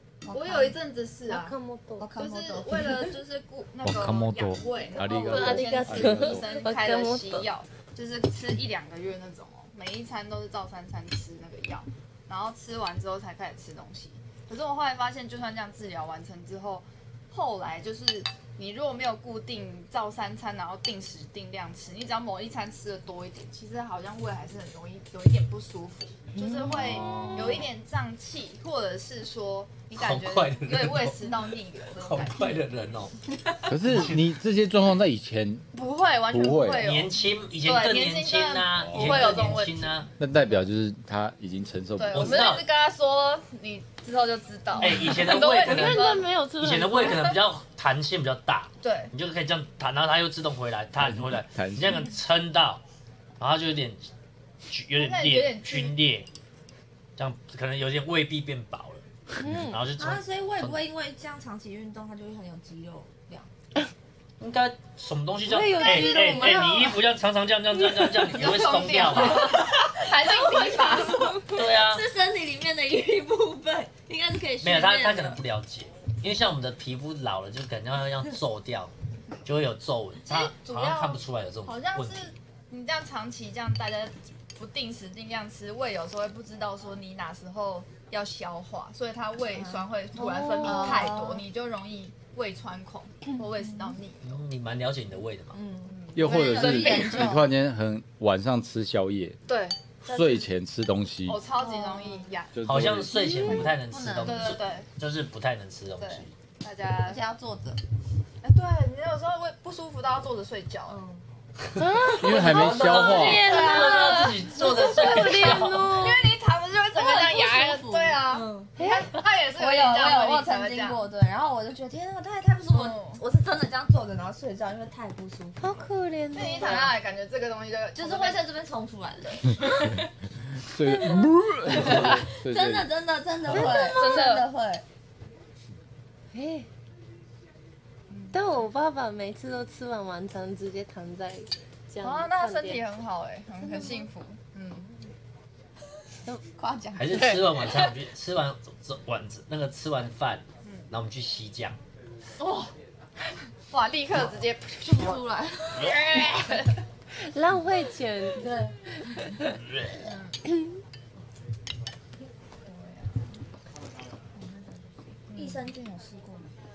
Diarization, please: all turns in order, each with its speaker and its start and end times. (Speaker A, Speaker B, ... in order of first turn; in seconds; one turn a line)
Speaker A: 0.2-0.8
Speaker B: 0.3-1.5
Speaker C: 1.3-2.1
Speaker A: 2.0-3.1
Speaker B: 2.1-32.5
Speaker D: 3.8-6.5
Speaker C: 5.1-7.5
Speaker C: 26.4-27.5
Speaker E: 26.8-27.6
Speaker E: 29.9-31.2
Speaker E: 32.0-33.1
Speaker D: 33.7-35.6
Speaker E: 33.9-34.2
Speaker B: 35.7-40.6
Speaker D: 36.3-36.9
Speaker E: 36.8-40.1
Speaker D: 38.8-39.4
Speaker D: 40.2-42.5
Speaker B: 42.0-46.3
Speaker E: 42.1-42.6
Speaker E: 44.8-52.8
Speaker C: 44.8-47.3
Speaker B: 48.8-49.1
Speaker D: 51.0-52.1
Speaker E: 53.4-54.1
Speaker E: 54.7-56.3
Speaker B: 55.0-55.9
Speaker E: 57.2-60.8
Speaker C: 59.4-59.8
Speaker A: 59.9-63.5
Speaker E: 64.4-69.6
Speaker C: 65.5-66.8
Speaker A: 65.5-67.0
Speaker B: 68.3-71.4
Speaker A: 69.0-75.4
Speaker E: 71.5-72.1
Speaker E: 74.6-78.9
Speaker E: 79.4-82.3
Speaker B: 80.2-94.4
Speaker A: 89.5-91.4
Speaker C: 90.2-91.1
Speaker A: 93.6-93.9
Speaker E: 94.2-95.6
Speaker A: 95.5-97.5
Speaker B: 95.8-97.3
Speaker D: 96.1-99.4
Speaker B: 99.5-100.5
Speaker D: 100.0-101.4
Speaker B: 101.3-102.6
Speaker A: 101.6-102.3
Speaker D: 102.5-103.6
Speaker E: 102.6-106.3
Speaker C: 103.1-103.6
Speaker A: 103.8-104.6
Speaker B: 104.2-104.8
Speaker B: 106.0-107.2
Speaker A: 107.0-107.8
Speaker B: 108.4-111.0
Speaker A: 110.9-111.2
Speaker E: 111.6-115.9
Speaker C: 111.8-116.4
Speaker D: 112.2-113.4
Speaker A: 112.9-114.4
Speaker B: 114.0-121.0
Speaker A: 116.9-118.7
Speaker C: 118.8-119.1
Speaker A: 119.5-126.9
Speaker B: 122.7-123.2
Speaker C: 125.6-126.9
Speaker B: 126.3-128.5
Speaker A: 128.0-130.0
Speaker D: 130.6-132.9
Speaker B: 131.8-132.2
Speaker A: 131.8-134.8
Speaker B: 133.5-134.5
Speaker C: 133.6-134.2
Speaker C: 136.3-136.7
Speaker B: 138.1-138.7
Speaker C: 138.3-142.8
Speaker B: 142.0-145.1
Speaker A: 146.4-147.4
Speaker E: 146.9-151.8
Speaker B: 147.1-147.9
Speaker B: 152.4-152.7
Speaker B: 153.7-155.2
Speaker A: 154.8-156.6
Speaker B: 155.8-156.7
Speaker C: 157.2-158.5
Speaker A: 158.3-158.8
Speaker C: 159.2-159.5
Speaker B: 160.0-160.3
Speaker B: 162.6-163.4
Speaker A: 164.3-166.5
Speaker B: 165.3-165.7